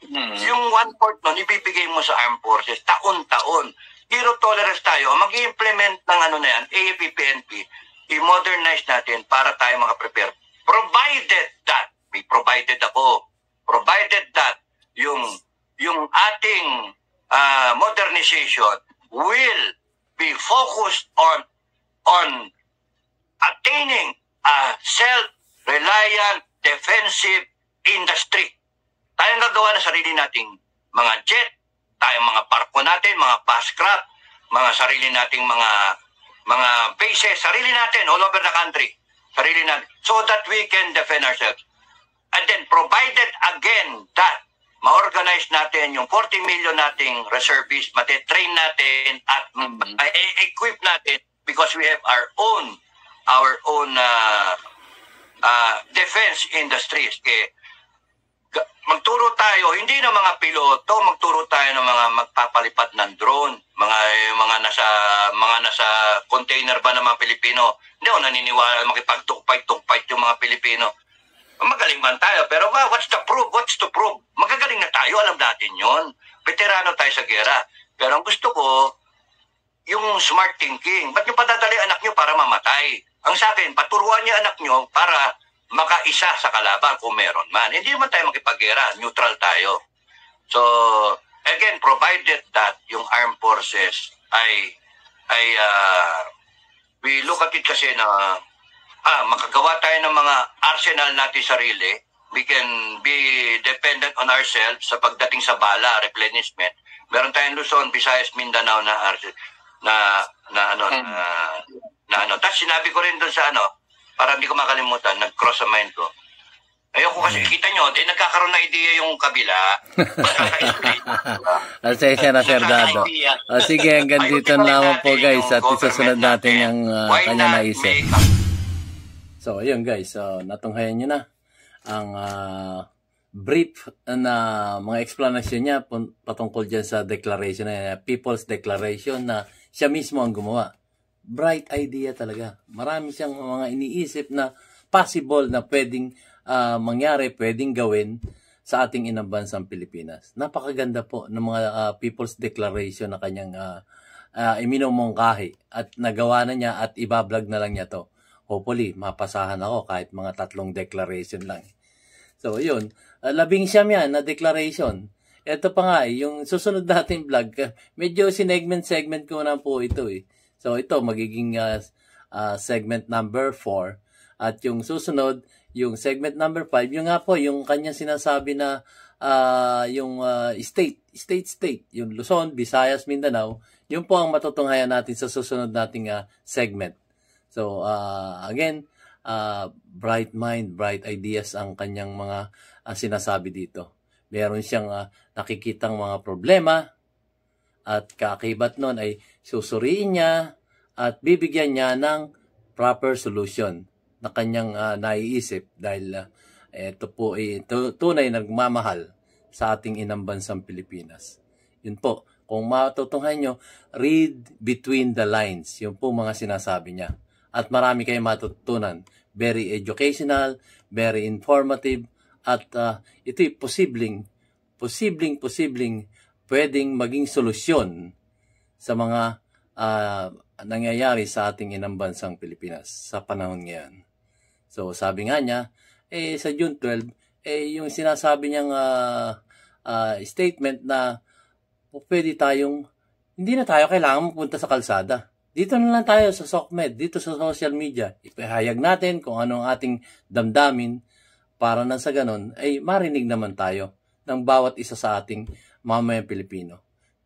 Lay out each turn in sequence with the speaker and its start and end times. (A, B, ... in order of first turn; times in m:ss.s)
0:00.1-0:00.5 A
0:00.4-0:21.4 B
0:22.1-0:22.5 B
0:23.4-0:28.5 B
0:29.2-0:35.9 B
0:36.5-0:41.6 B
0:42.3-0:52.8 B
0:49.6-0:50.0 A
0:53.3-0:54.6 B
0:55.4-0:57.5 B
0:58.5-1:10.9 B
1:11.6-1:18.9 B
1:19.9-1:29.8 B
1:30.5-1:34.7 B
1:35.3-1:36.3 B
1:37.0-1:38.4 B
1:39.0-1:49.3 B
1:49.8-1:56.1 B
1:50.9-1:51.2 A
1:56.9-2:01.6 B
2:00.0-2:08.0 C
2:02.4-2:03.1 B
2:02.6-2:04.0 A
2:04.2-2:08.3 B
2:09.4-2:11.2 C
2:11.9-2:20.7 C
2:21.3-2:28.1 C
2:28.7-2:33.8 C
2:34.4-2:41.7 C
2:42.4-3:07.0 C
3:07.5-3:16.8 C
3:17.9-3:20.3 C
3:21.0-3:22.2 C
3:22.8-3:26.2 C
3:26.8-3:44.2 C
3:44.8-3:47.9 C
3:48.8-3:49.3 C
3:49.8-3:54.0 C
3:54.7-3:59.4 C
3:59.9-4:01.1 C
4:01.9-4:02.8 C
4:03.4-4:10.9 C
4:11.6-4:16.8 C